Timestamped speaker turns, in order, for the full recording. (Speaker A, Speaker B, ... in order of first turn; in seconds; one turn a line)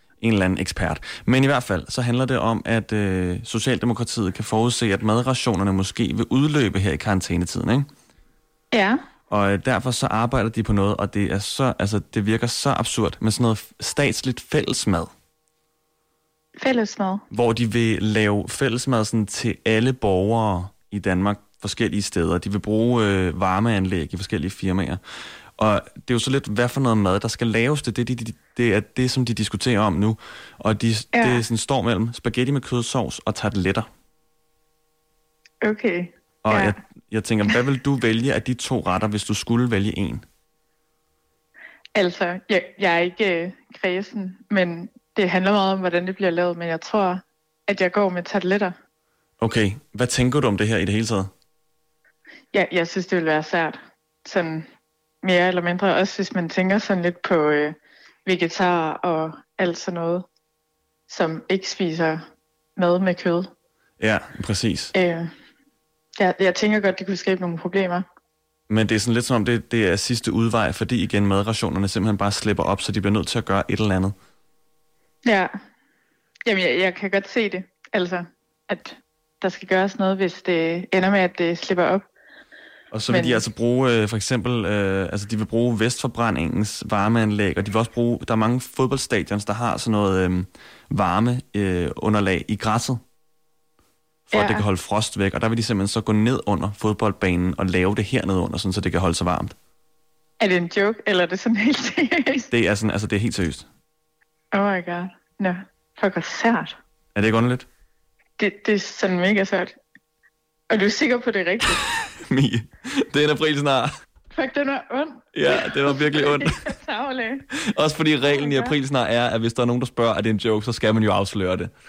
Speaker A: 0.2-7.9
Speaker B: 8.7-9.0
Speaker A: 9.3-15.1
Speaker B: 16.6-17.2
Speaker A: 17.3-25.0
Speaker A: 25.6-33.9
Speaker B: 31.1-31.4
Speaker B: 35.6-36.7
Speaker A: 36.5-40.2
Speaker B: 42.0-48.8
Speaker A: 49.4-51.3
Speaker B: 52.5-54.7
Speaker B: 55.2-60.3
Speaker B: 61.1-62.2
Speaker B: 62.8-63.5
Speaker A: 64.0-64.9
Speaker B: 64.9-65.3
Speaker B: 66.2-68.0
Speaker A: 68.7-74.2
Speaker B: 75.2-75.5
Speaker B: 76.5-82.0
Speaker A: 82.9-93.0
Speaker B: 83.1-83.4
Speaker A: 94.3-99.5
Speaker B: 94.3-94.7
Speaker B: 100.4-102.5
Speaker A: 102.5-103.7
Speaker B: 104.5-106.8
Speaker A: 107.2-107.7
Speaker B: 108.4-109.8
Speaker B: 110.7-111.8
Speaker A: 111.7-113.9
Speaker B: 114.3-117.4
Speaker A: 115.3-116.6
Speaker A: 117.6-121.7
Speaker B: 118.2-118.7